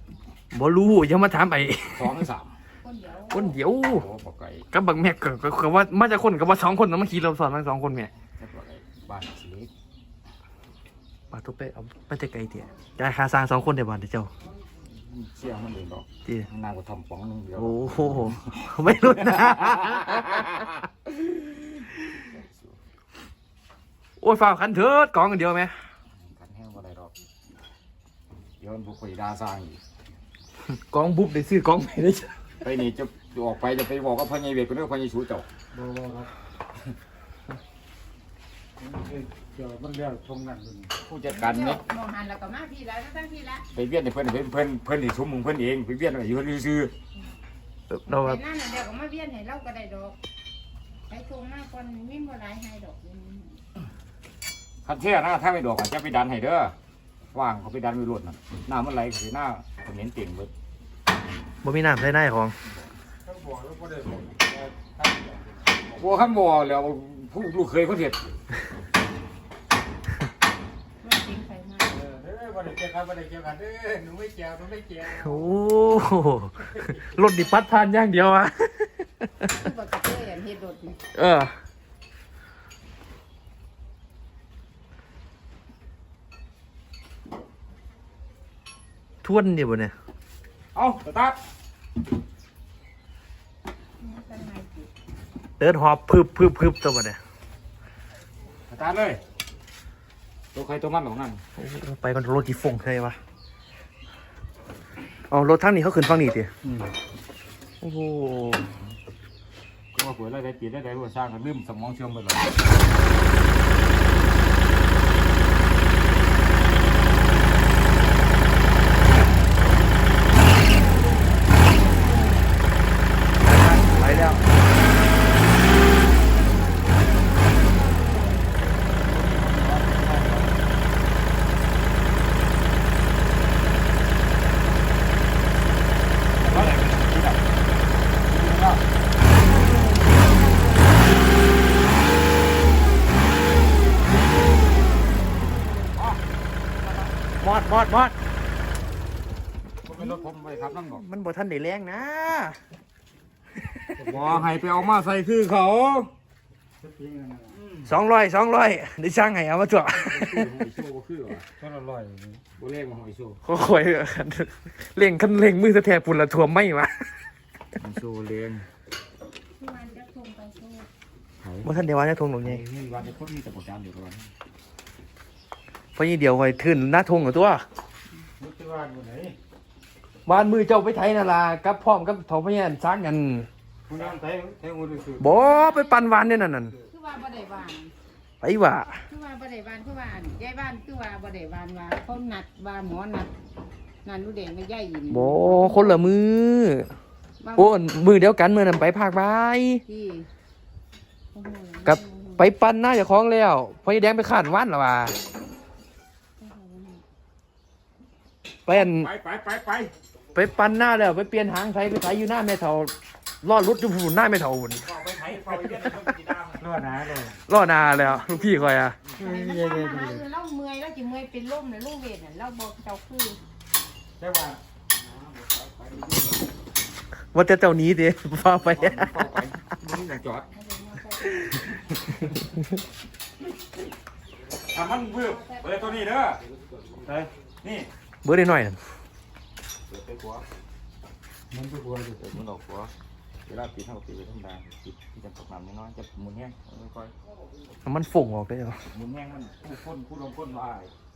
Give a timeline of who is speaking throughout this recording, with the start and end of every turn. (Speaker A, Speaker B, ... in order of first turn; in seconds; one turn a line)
Speaker A: 0.5-2.2
Speaker B: 1.9-2.6
Speaker C: 2.8-3.6
Speaker A: 3.3-4.0
Speaker B: 3.8-4.7
Speaker A: 4.7-8.1
Speaker B: 8.4-9.7
Speaker A: 11.3-14.3
Speaker B: 14.8-20.7
Speaker A: 17.6-20.6
Speaker B: 22.2-22.8
Speaker A: 24.2-25.8
Speaker B: 26.1-27.1
Speaker B: 28.6-29.8
Speaker A: 30.7-32.5
Speaker B: 32.6-35.5
Speaker D: 35.7-36.3
Speaker D: 38.8-40.9
Speaker B: 41.0-41.8
Speaker C: 41.3-43.7
Speaker B: 43.7-46.9
Speaker A: 47.9-48.4
Speaker C: 48.1-50.2
Speaker C: 51.1-53.6
Speaker B: 54.8-56.7
Speaker B: 57.3-60.5
Speaker A: 61.6-62.5
Speaker D: 63.2-66.0
Speaker B: 66.0-68.4
Speaker C: 71.0-72.0
Speaker D: 71.9-75.4
Speaker A: 75.1-79.3
Speaker C: 79.4-81.0
Speaker A: 81.1-81.5
Speaker A: 89.2-89.9
Speaker B: 90.7-91.4
Speaker C: 94.0-94.9
Speaker A: 95.6-97.2
Speaker B: 98.7-99.2
Speaker B: 100.5-101.4
Speaker A: 101.6-103.2
Speaker A: 105.3-106.5
Speaker D: 106.7-106.9
Speaker A: 107.8-108.8
Speaker B: 109.9-112.6
Speaker A: 123.4-124.4
Speaker B: 129.0-130.5
Speaker A: 136.4-137.0
Speaker B: 136.4-137.6
Speaker B: 138.1-138.8
Speaker B: 145.9-146.2
Speaker B: 146.8-147.1
Speaker A: 147.4-148.1
Speaker B: 149.8-151.0
Speaker A: 150.8-152.6
Speaker B: 153.9-156.1
Speaker D: 154.0-154.5
Speaker D: 156.8-157.6
Speaker B: 157.5-157.9
Speaker A: 157.9-160.4
Speaker B: 160.0-161.5
Speaker D: 161.6-162.4
Speaker B: 162.6-163.4
Speaker A: 163.4-167.2
Speaker B: 167.8-168.7
Speaker C: 169.6-170.9
Speaker B: 171.4-171.8
Speaker A: 171.6-172.6
Speaker B: 172.4-174.3
Speaker A: 175.9-177.6
Speaker D: 178.4-179.4
Speaker A: 180.3-183.5
Speaker D: 183.9-185.3
Speaker A: 185.2-186.8
Speaker C: 185.2-186.2
Speaker C: 186.9-187.9
Speaker A: 188.4-189.0
Speaker C: 188.9-193.3
Speaker C: 194.0-196.0
Speaker A: 195.1-196.9
Speaker C: 197.4-197.9
Speaker A: 197.6-199.8
Speaker C: 199.9-200.3
Speaker C: 201.3-202.5
Speaker A: 201.9-205.2
Speaker C: 206.4-207.0
Speaker A: 208.7-209.1
Speaker B: 208.7-209.9
Speaker A: 210.3-214.9
Speaker B: 214.8-216.7
Speaker D: 216.6-217.4
Speaker A: 217.5-219.0
Speaker C: 217.8-218.4
Speaker D: 219.2-220.2
Speaker C: 219.2-223.4
Speaker D: 224.2-224.6
Speaker B: 224.9-226.5
Speaker A: 227.3-229.1
Speaker B: 228.5-230.5
Speaker C: 230.5-231.5
Speaker B: 231.4-232.2
Speaker B: 234.5-236.6
Speaker C: 235.3-235.8
Speaker B: 237.6-237.9
Speaker A: 238.2-238.8
Speaker B: 239.9-240.5
Speaker D: 241.5-242.2
Speaker B: 242.2-242.9
Speaker B: 243.5-247.1
Speaker A: 247.8-248.9
Speaker B: 248.9-250.9